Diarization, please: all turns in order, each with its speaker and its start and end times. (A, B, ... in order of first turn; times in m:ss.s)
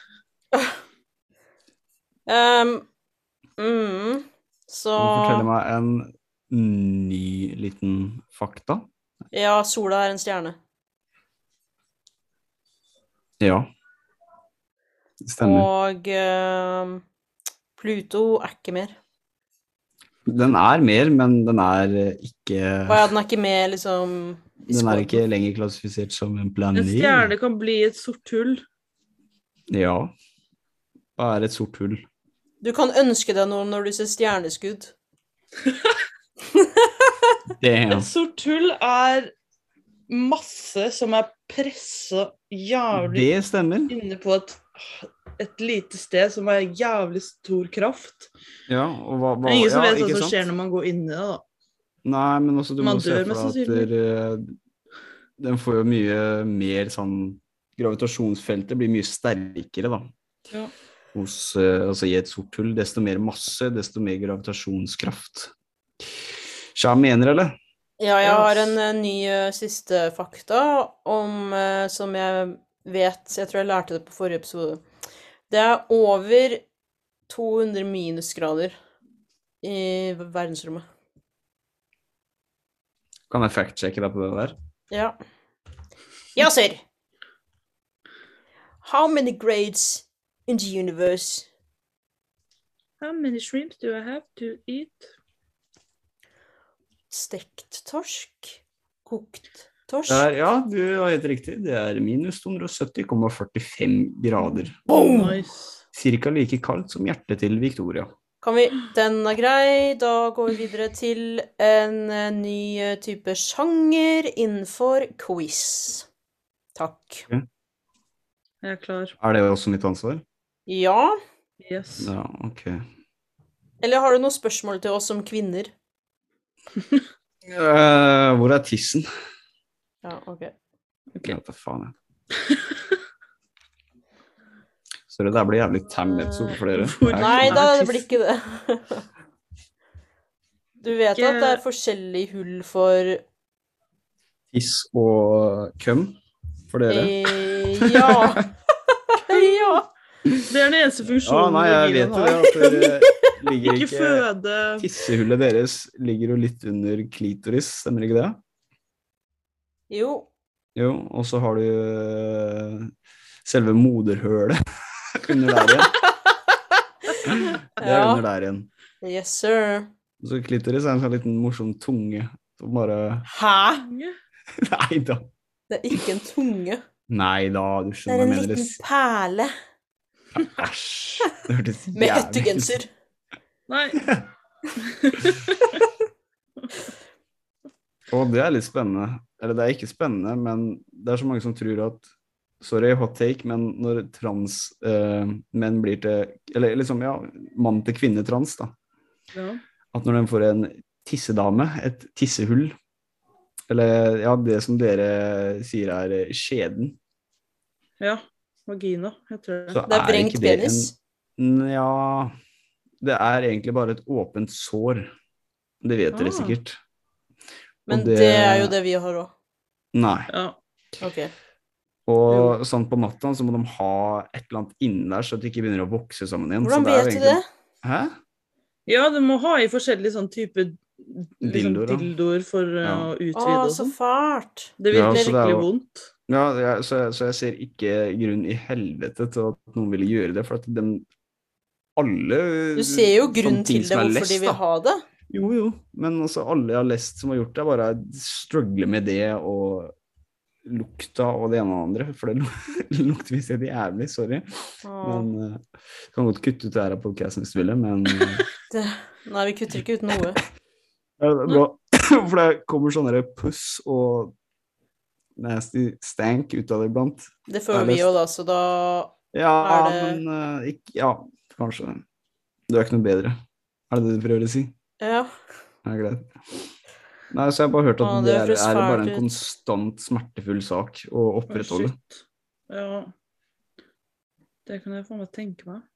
0:02.3-0:02.8 A
0:03.6-0:05.5 A
0:05.0-0:08.9 B
0:09.3-0:10.6 A
0:13.4-0:13.7 B
0:15.2-0:15.7 B
0:15.4-0:17.0 A
0:17.8-0:18.9 A
0:20.2-0:23.1 B
0:22.9-0:25.2 A
0:24.7-0:27.3 B
0:26.7-0:28.6 C
0:29.7-0:30.1 B
0:31.2-0:32.0 B
0:32.6-0:34.9 A
0:36.6-0:37.3 A
0:37.6-0:38.1 B
0:37.9-0:39.3 C
0:40.1-0:43.3 C
0:42.9-0:43.9 B
0:43.9-0:48.3 C
0:48.7-0:50.4 B
0:49.4-0:51.4 C
0:52.0-0:54.5 B
0:52.8-0:53.9 C
0:55.4-1:00.1 B
1:01.1-1:05.5 B
1:06.7-1:07.5 B
1:08.0-1:14.8 A
1:08.2-1:08.8 C
1:15.5-1:16.6 A
1:17.3-1:18.8 A
1:19.6-1:20.8 A
1:23.3-1:24.5 B
1:24.9-1:25.2 A
1:26.4-1:26.8 A
1:28.8-1:31.5 A
1:33.0-1:35.1 C
1:37.1-1:40.2 A
1:40.1-1:45.3 B
1:44.9-1:45.8 C
1:44.9-1:45.3 A
1:45.9-1:48.1 B
1:48.4-1:56.1 A
1:56.8-1:57.2 A
1:58.6-1:59.1 C
1:59.2-2:00.2 B
2:00.7-2:01.2 A
2:01.6-2:02.1 C
2:02.0-2:02.8 B
2:03.8-2:05.7 A
2:07.4-2:09.1 B
2:10.0-2:10.5 A
2:11.2-2:11.9 B
2:12.3-2:13.0 C
2:15.1-2:17.6 B
2:16.0-2:16.6 A
2:16.7-2:18.1 C
2:17.1-2:19.0 A
2:20.8-2:23.2 A
2:21.1-2:21.6 C
2:24.5-2:26.2 B
2:26.7-2:28.4 B
2:26.9-2:29.9 A
2:29.3-2:29.7 C
2:30.2-2:30.5 B
2:30.5-2:33.0 C
2:31.2-2:34.2 B
2:33.6-2:34.9 C
2:34.8-2:38.4 B
2:39.9-2:40.3 A
2:40.7-2:42.9 B
2:43.4-2:45.9 B
2:47.2-2:48.7 B
2:47.8-2:48.2 A
2:49.0-2:49.9 A
2:50.2-2:53.3 B
2:53.3-2:53.8 A
2:53.8-2:54.1 C
2:54.6-2:55.3 B
2:55.7-2:56.8 A
2:57.1-2:58.8 B
2:58.1-2:59.5 A
3:00.3-3:02.8 B
3:01.9-3:02.9 A
3:03.7-3:04.1 C
3:04.0-3:04.2 B
3:04.8-3:05.5 C
3:08.1-3:12.1 B
3:12.6-3:18.7 B
3:19.3-3:19.6 C
3:19.9-3:22.8 B
3:23.7-3:27.0 B
3:28.0-3:29.8 C
3:29.7-3:32.3 B
3:29.9-3:30.9 A
3:33.0-3:35.1 B
3:35.8-3:36.8 B
3:36.1-3:36.6 C
3:37.9-3:39.3 A
3:37.9-3:38.7 B
3:39.9-3:40.3 B
3:40.3-3:40.6 C
3:41.0-3:41.3 A
3:42.1-3:48.1 B
3:42.3-3:42.6 C
3:46.6-3:47.4 A
3:48.9-3:53.9 C
3:51.4-3:52.1 B
3:52.8-3:53.1 B
3:53.3-3:55.3 A
3:54.8-3:56.1 C
3:54.9-3:55.7 B
3:56.3-4:01.0 B
4:02.0-4:04.6 B
4:02.7-4:05.0 A
4:05.3-4:09.9 B
4:10.6-4:18.4 B
4:14.8-4:15.3 A
4:18.7-4:20.4 A
4:21.2-4:24.3 B
4:25.4-4:28.1 B
4:27.5-4:30.2 A
4:29.3-4:32.0 B
4:32.7-4:33.4 B
4:33.9-4:34.7 B
4:35.0-4:35.3 A
4:35.8-4:36.3 B
4:37.3-4:41.9 B
4:38.0-4:39.2 A
4:41.5-4:43.1 C
4:44.6-4:45.8 C